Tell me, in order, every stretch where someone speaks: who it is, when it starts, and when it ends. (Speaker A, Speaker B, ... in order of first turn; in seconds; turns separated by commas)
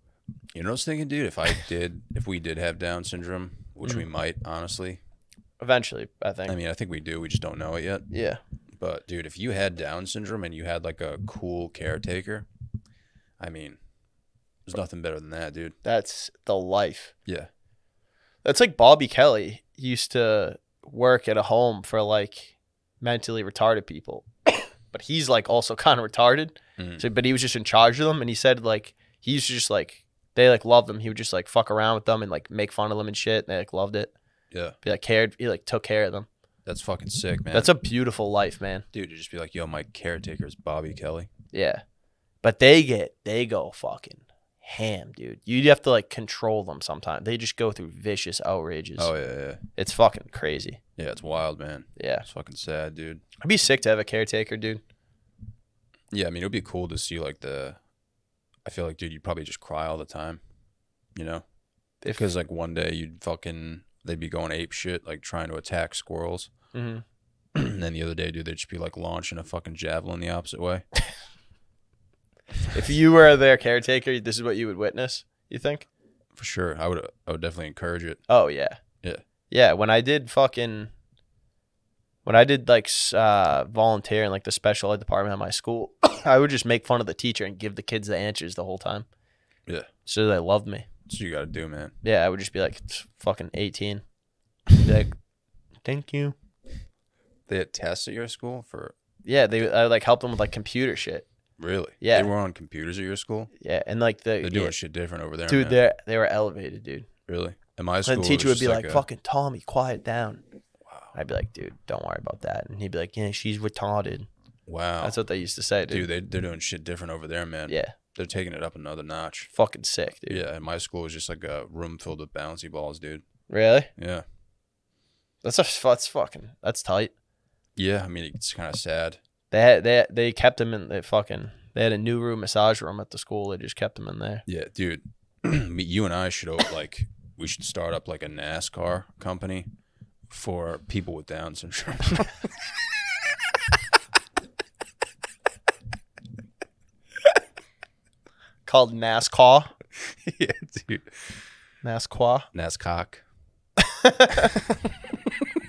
Speaker A: 0.5-5.0, Speaker B: 5.6-6.5, Speaker A: 6.5-8.1, Speaker B: 8.1-8.4, Speaker A: 8.8-12.5, Speaker A: 13.4-13.8, Speaker A: 14.7-15.8, Speaker B: 15.8-17.1, Speaker B: 18.4-34.1, Speaker A: 26.8-27.1, Speaker B: 34.8-36.3, Speaker A: 36.7-37.7, Speaker B: 37.5-38.9, Speaker A: 38.9-41.3, Speaker B: 41.5-41.8, Speaker B: 42.4-49.1, Speaker A: 49.0-49.6, Speaker B: 49.8-50.8, Speaker A: 51.0-53.2, Speaker B: 52.0-52.2, Speaker B: 53.4-54.8, Speaker A: 56.1-57.8, Speaker A: 58.6-60.4, Speaker A: 61.1-61.4, Speaker A: 62.1-66.5, Speaker B: 66.7-67.0, Speaker A: 67.5-70.9, Speaker B: 72.7-75.9, Speaker A: 76.3-78.2, Speaker B: 78.3-78.8, Speaker B: 79.5-80.9, Speaker B: 82.2-89.1, Speaker B: 90.1-90.9, Speaker A: 91.1-92.0, Speaker B: 92.0-94.0, Speaker B: 94.8-95.1, Speaker B: 95.8-96.4, Speaker A: 97.5-98.9, Speaker B: 99.2-101.3, Speaker A: 101.6-103.5, Speaker B: 102.0-102.3, Speaker B: 103.6-104.8, Speaker A: 104.4-105.8, Speaker B: 105.5-107.1, Speaker A: 107.3-109.0, Speaker B: 108.1-110.4, Speaker A: 110.9-111.2, Speaker B: 111.2-114.3, Speaker A: 114.7-115.2, Speaker B: 115.0-116.1, Speaker A: 115.9-119.5, Speaker B: 117.7-118.0, Speaker B: 119.5-120.4, Speaker A: 120.3-123.2, Speaker B: 123.5-123.9, Speaker A: 124.0-124.2, Speaker B: 125.4-127.1, Speaker A: 127.8-129.2, Speaker B: 129.5-134.4, Speaker A: 134.5-139.7, Speaker A: 140.3-142.5, Speaker B: 148.7-149.7, Speaker A: 150.0-151.3, Speaker B: 151.8-152.5, Speaker A: 152.5-153.2, Speaker B: 153.8-154.6